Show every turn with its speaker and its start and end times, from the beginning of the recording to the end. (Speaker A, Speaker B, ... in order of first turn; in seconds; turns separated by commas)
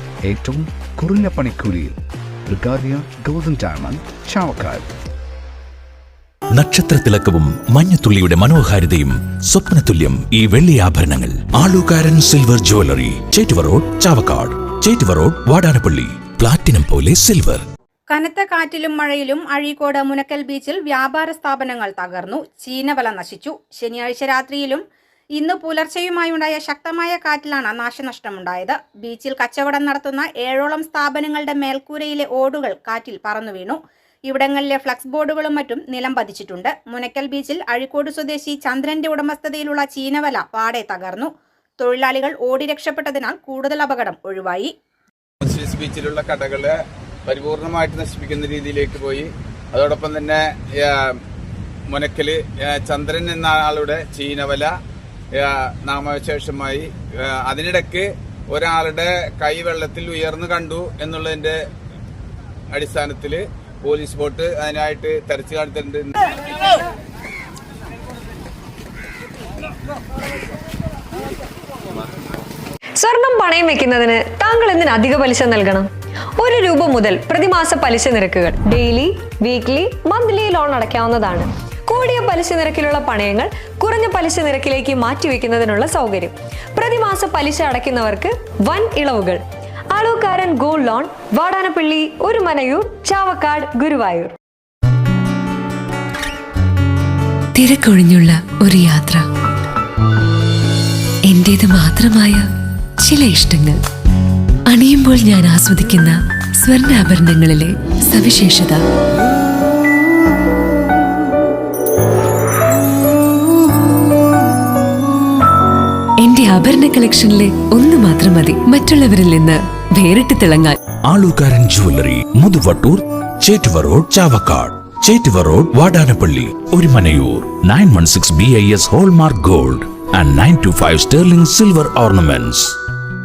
Speaker A: 0.2-4.8, Speaker B: 6.5-17.6, Speaker C: 18.1-24.8, Speaker C: 25.4-44.7, Speaker D: 45.4-51.2, Speaker D: 51.9-54.7, Speaker D: 55.3-61.6, Speaker D: 62.7-66.3, Speaker E: 73.0-89.4, Speaker E: 89.9-94.3, Speaker F: 97.5-99.2, Speaker F: 101.3-102.4, Speaker F: 103.0-103.8, Speaker F: 104.7-108.8, Speaker F: 116.2-120.7, Speaker B: 121.0-132.8